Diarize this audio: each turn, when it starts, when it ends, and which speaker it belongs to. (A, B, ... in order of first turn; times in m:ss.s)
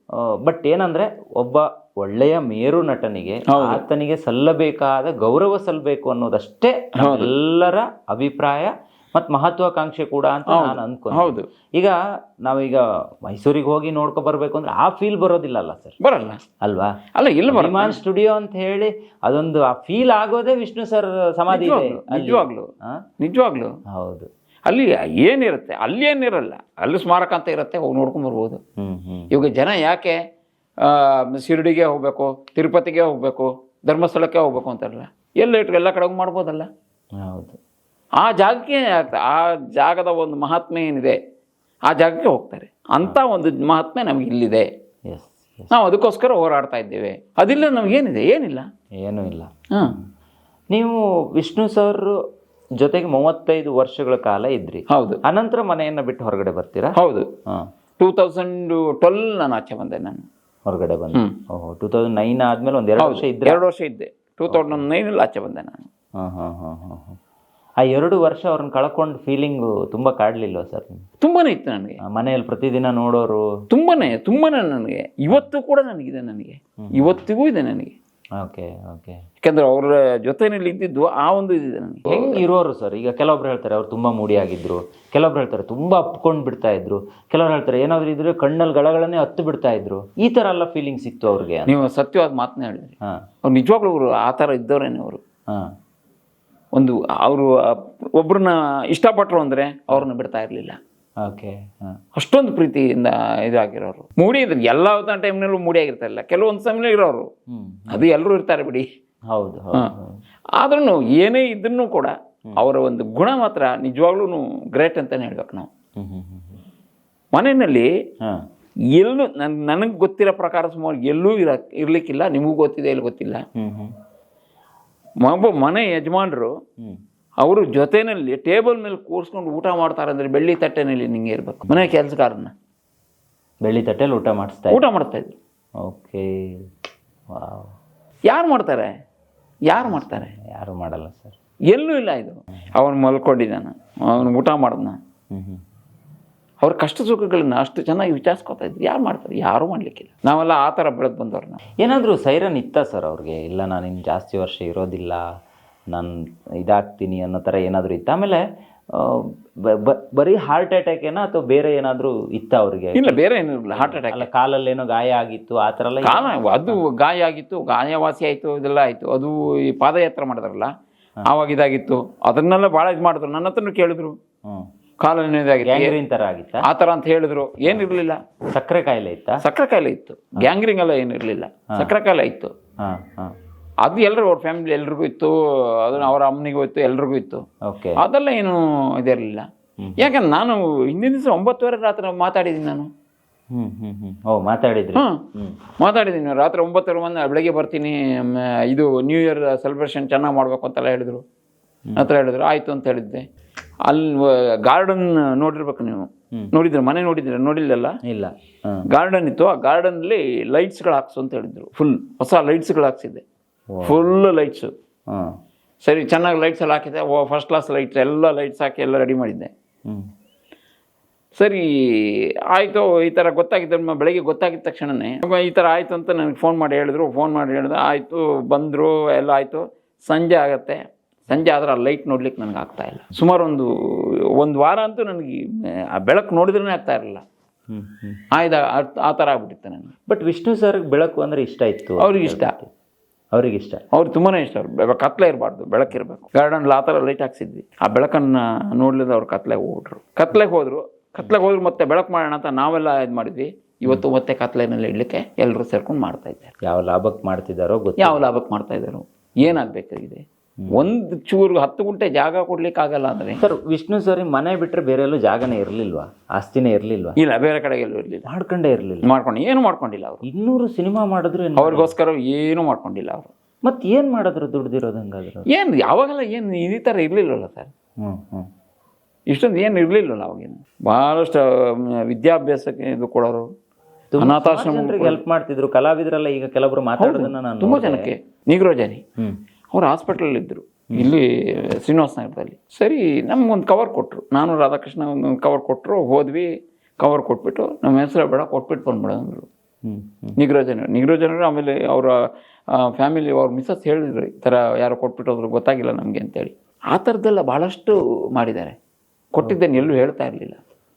0:00.2-0:16.0 A
0:03.5-0:03.8 B
0:07.0-0:07.3 B
0:10.5-0:11.5 B
0:16.0-0:16.4 B
0:16.6-0:23.0 A
0:17.1-0:18.0 B
0:21.5-0:22.6 B
0:23.2-0:23.7 B
0:23.9-0:24.3 A
0:24.7-0:28.6 B
0:28.8-0:29.3 A
0:29.3-0:30.2 B
0:30.8-0:36.7 B
0:37.2-0:37.6 A
0:38.2-0:41.2 B
0:41.9-0:44.7 B
0:45.1-0:45.7 A
0:45.7-0:48.7 B
0:49.0-0:49.5 A
0:50.7-0:52.2 A
0:52.8-0:56.9 A
0:54.9-0:55.2 B
0:57.0-0:57.3 B
0:58.0-1:00.2 B
1:00.6-1:03.6 A
1:03.0-1:05.9 B
1:04.5-1:04.8 A
1:06.2-1:07.2 A
1:07.8-1:11.0 A
1:11.2-1:12.0 B
1:12.0-1:13.5 A
1:13.7-1:17.9 B
1:16.9-1:17.2 A
1:18.4-1:19.2 A
1:19.4-1:22.4 B
1:22.1-1:31.7 A
1:31.7-1:35.2 B
1:36.7-1:40.8 B
1:41.2-1:42.0 A
1:42.2-1:47.3 B
1:47.5-1:48.1 A
1:47.9-1:48.8 B
1:49.3-1:50.2 A
1:50.6-1:55.7 B
1:56.0-1:56.6 A
1:57.3-1:57.9 B
1:58.9-2:03.4 B
2:03.6-2:03.9 A
2:05.2-2:06.5 B
2:07.4-2:12.5 B
2:13.6-2:14.9 A
2:14.7-2:15.4 B
2:15.8-2:16.7 A
2:17.3-2:17.7 A
2:18.3-2:18.9 B
2:19.7-2:20.3 B
2:19.7-2:21.4 A
2:21.7-2:25.0 B
2:25.3-2:25.6 A
2:26.6-2:31.6 B
2:31.8-2:35.2 A
2:35.9-2:38.4 A
2:38.9-2:46.8 A
2:42.9-2:44.3 B
2:46.0-2:50.7 B
2:51.2-2:54.1 B
2:55.0-2:55.9 B
2:55.6-2:56.6 A
2:56.6-2:58.2 B
2:57.6-2:57.9 A
2:58.5-2:59.4 A
2:59.4-3:02.5 B
3:02.8-3:03.3 A
3:03.8-3:07.4 B
3:07.7-3:08.0 A
3:08.0-3:09.5 B
3:09.8-3:10.1 A
3:10.0-3:12.9 B
3:13.5-3:15.6 A
3:15.8-3:21.2 B
3:22.0-3:23.2 B
3:23.8-3:28.0 B
3:28.0-3:28.8 A
3:28.9-3:33.2 B
3:33.7-3:34.0 A
3:33.8-3:34.7 B
3:35.1-3:35.4 A
3:35.8-3:39.5 B
3:41.4-3:57.2 B
3:57.7-3:58.2 A
3:58.3-3:59.9 B
4:00.1-4:02.7 A
4:02.0-4:02.5 B
4:03.3-4:03.8 A
4:03.9-4:16.5 B
4:16.6-4:18.2 A
4:18.0-4:23.4 B
4:20.6-4:20.9 A
4:23.4-4:27.2 A
4:27.2-4:28.2 B
4:28.3-4:29.1 A
4:29.0-4:30.2 B
4:30.2-4:31.9 A
4:31.6-4:33.3 B
4:33.6-4:35.5 A
4:35.5-4:37.7 B
4:38.0-4:38.5 A
4:39.3-4:43.5 B
4:44.1-4:48.1 A
4:44.2-4:45.2 B
4:47.0-4:49.0 B
4:49.7-4:56.5 B
4:57.0-4:59.5 B
4:59.8-5:00.4 A
5:00.4-5:02.1 B
5:02.7-5:08.7 B
5:09.3-5:10.6 B
5:09.4-5:09.9 A